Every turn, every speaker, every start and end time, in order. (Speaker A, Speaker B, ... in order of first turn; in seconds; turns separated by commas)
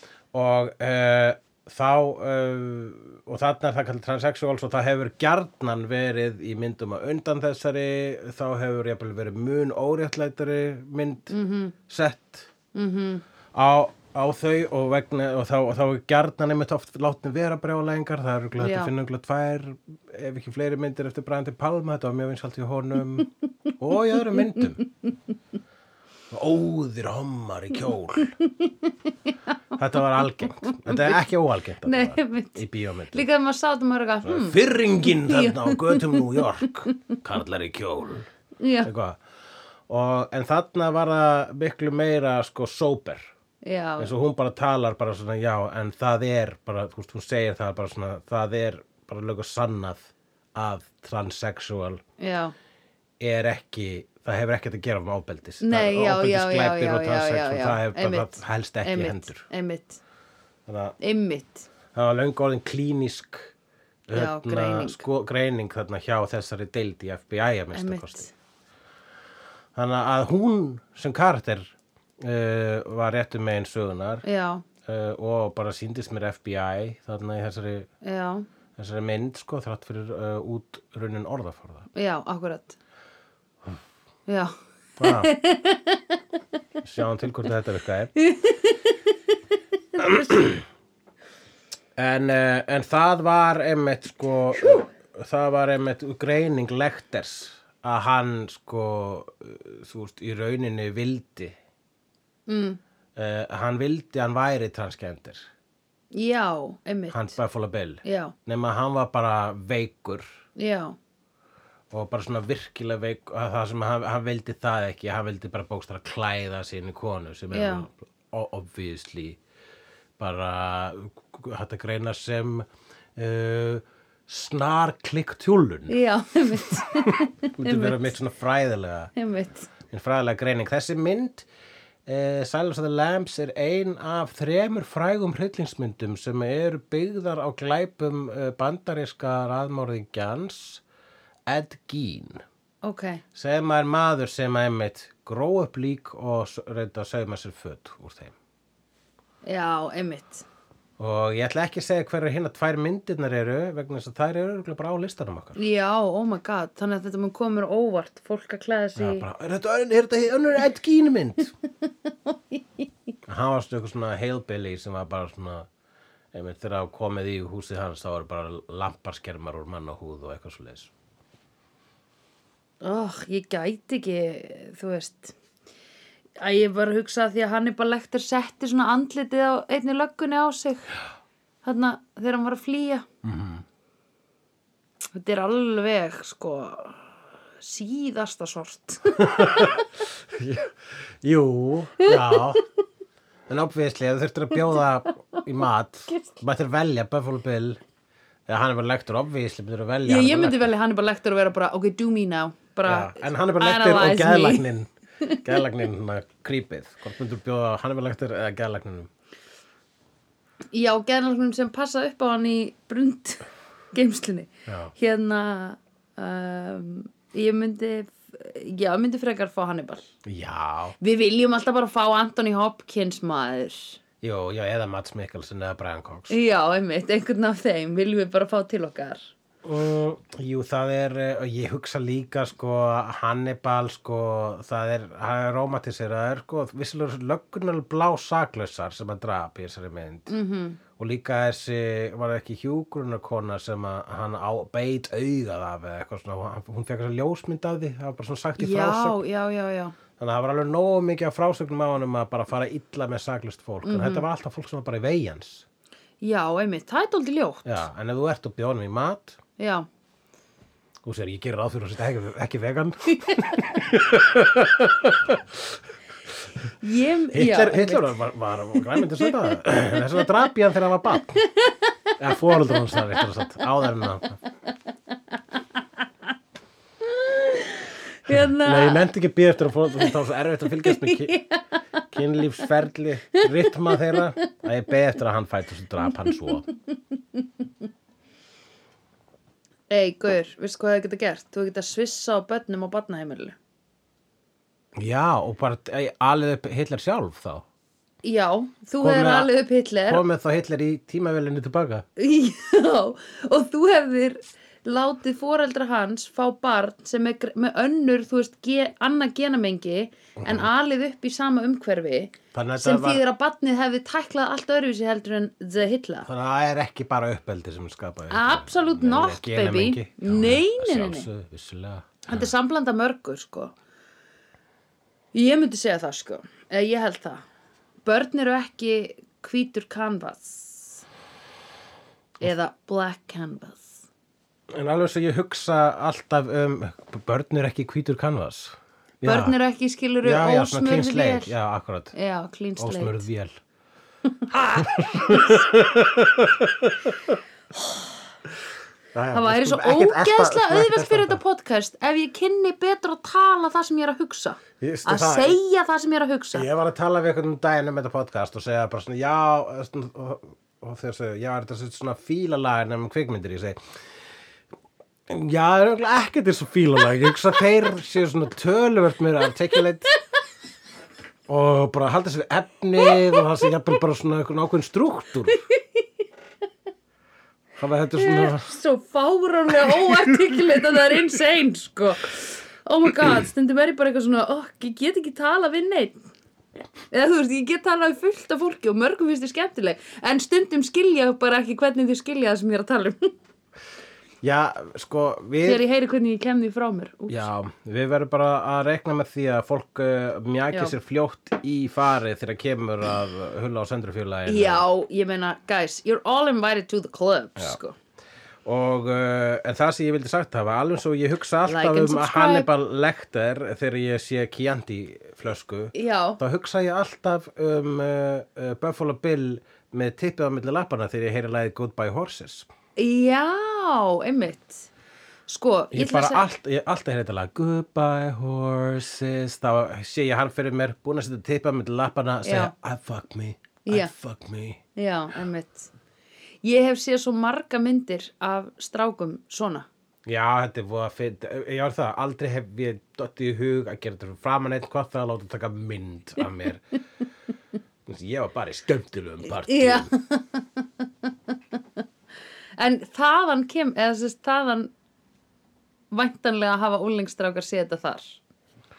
Speaker A: 0.3-11.3, Speaker B: 11.3-11.8, Speaker A: 11.9-12.5, Speaker B: 12.7-13.2, Speaker A: 13.5-24.8, Speaker B: 18.6-18.9, Speaker B: 24.2-24.9, Speaker A: 26.3-28.4, Speaker B: 28.4-29.5, Speaker A: 29.8-33.2, Speaker B: 30.4-31.2, Speaker B: 31.8-36.9, Speaker A: 34.2-38.3, Speaker B: 38.6-38.9, Speaker A: 38.8-39.2, Speaker A: 39.9-43.3, Speaker B: 43.6-44.1, Speaker A: 44.0-52.0, Speaker B: 52.2-52.5, Speaker A: 53.2-59.5, Speaker B: 55.6-60.0, Speaker A: 60.7-61.0, Speaker B: 61.0-61.7, Speaker A: 61.9-63.5, Speaker A: 64.1-68.3, Speaker B: 64.1-65.0, Speaker B: 67.7-68.3, Speaker A: 69.8-74.2, Speaker B: 74.2-74.7, Speaker A: 74.8-77.9, Speaker B: 78.0-78.5, Speaker A: 78.8-81.9, Speaker B: 82.0-82.8, Speaker B: 84.3-86.2, Speaker A: 85.0-85.3, Speaker A: 86.8-88.1, Speaker B: 88.2-89.2, Speaker B: 90.0-90.3, Speaker A: 90.0-90.6, Speaker A: 92.0-101.6, Speaker B: 102.5-102.8, Speaker A: 103.2-105.5, Speaker B: 106.1-107.4, Speaker A: 107.1-110.3, Speaker B: 108.0-108.3, Speaker B: 110.6-111.0, Speaker A: 111.9-119.4, Speaker B: 117.5-117.9, Speaker A: 120.2-126.0, Speaker B: 125.9-128.1, Speaker A: 126.8-129.1, Speaker B: 129.2-129.7, Speaker A: 129.9-131.5, Speaker A: 132.1-140.8, Speaker A: 141.5-142.4, Speaker B: 142.8-143.2, Speaker A: 143.3-148.3, Speaker B: 149.4-150.4, Speaker A: 151.0-155.6, Speaker B: 155.6-159.3, Speaker A: 159.0-161.5, Speaker B: 162.3-162.9, Speaker A: 163.3-165.7, Speaker A: 166.3-170.9, Speaker B: 172.8-175.4, Speaker B: 176.4-180.9, Speaker B: 181.6-183.1, Speaker A: 183.2-183.6, Speaker B: 185.2-189.8, Speaker A: 189.2-192.6, Speaker B: 192.0-192.6, Speaker A: 193.5-197.8, Speaker B: 196.1-196.4, Speaker A: 198.5-200.7, Speaker B: 200.1-204.7, Speaker A: 202.8-204.9, Speaker B: 205.2-205.5, Speaker A: 205.4-209.1, Speaker B: 210.7-220.1, Speaker A: 214.7-214.9, Speaker A: 220.2-221.0, Speaker B: 221.0-224.0, Speaker A: 224.2-226.3, Speaker B: 226.3-229.3, Speaker A: 229.6-240.3, Speaker B: 240.3-240.8, Speaker A: 241.0-249.2, Speaker B: 248.6-250.0, Speaker A: 250.2-255.7, Speaker B: 253.8-254.3, Speaker B: 256.2-257.8, Speaker A: 257.6-259.4, Speaker B: 259.6-259.9, Speaker A: 261.0-265.8, Speaker B: 266.8-268.1, Speaker A: 267.3-271.4, Speaker B: 268.8-269.6, Speaker B: 271.4-272.1, Speaker A: 272.2-274.4, Speaker B: 272.9-273.2, Speaker B: 275.3-275.8, Speaker B: 277.0-279.1, Speaker A: 278.3-281.4, Speaker B: 280.8-282.0, Speaker A: 282.1-286.7, Speaker B: 283.4-284.4, Speaker B: 286.2-286.7, Speaker B: 289.9-293.6, Speaker A: 295.0-297.6, Speaker B: 298.2-300.2, Speaker A: 299.0-299.5, Speaker A: 300.1-302.1, Speaker B: 302.2-316.3, Speaker A: 310.4-310.7, Speaker A: 312.5-313.2, Speaker A: 316.2-322.5, Speaker B: 318.3-321.3, Speaker B: 322.3-323.7, Speaker B: 325.3-327.4, Speaker B: 328.0-331.1, Speaker B: 332.4-334.0, Speaker A: 334.7-339.6, Speaker B: 339.2-341.5, Speaker A: 340.2-342.1, Speaker B: 342.1-343.3, Speaker A: 342.8-343.6, Speaker B: 344.5-345.6, Speaker A: 344.7-347.4, Speaker A: 349.1-351.4, Speaker B: 349.3-356.7, Speaker A: 354.8-355.6, Speaker A: 356.6-363.8, Speaker A: 365.3-370.1, Speaker A: 371.5-375.6, Speaker B: 375.7-376.0, Speaker A: 377.8-378.7, Speaker B: 378.1-386.2, Speaker A: 379.8-380.6, Speaker B: 387.1-393.3, Speaker A: 394.4-395.8, Speaker B: 395.6-397.5, Speaker A: 397.3-404.9, Speaker B: 404.5-407.9, Speaker A: 408.6-422.7, Speaker B: 411.6-412.7, Speaker B: 415.9-416.4, Speaker B: 423.0-424.9, Speaker B: 425.5-426.4, Speaker A: 425.9-434.8, Speaker B: 432.4-432.7, Speaker B: 433.9-434.1, Speaker B: 435.0-435.9, Speaker B: 436.6-439.9, Speaker A: 440.3-446.8, Speaker A: 448.1-450.1, Speaker B: 449.6-452.0, Speaker B: 452.8-454.9, Speaker B: 456.1-458.4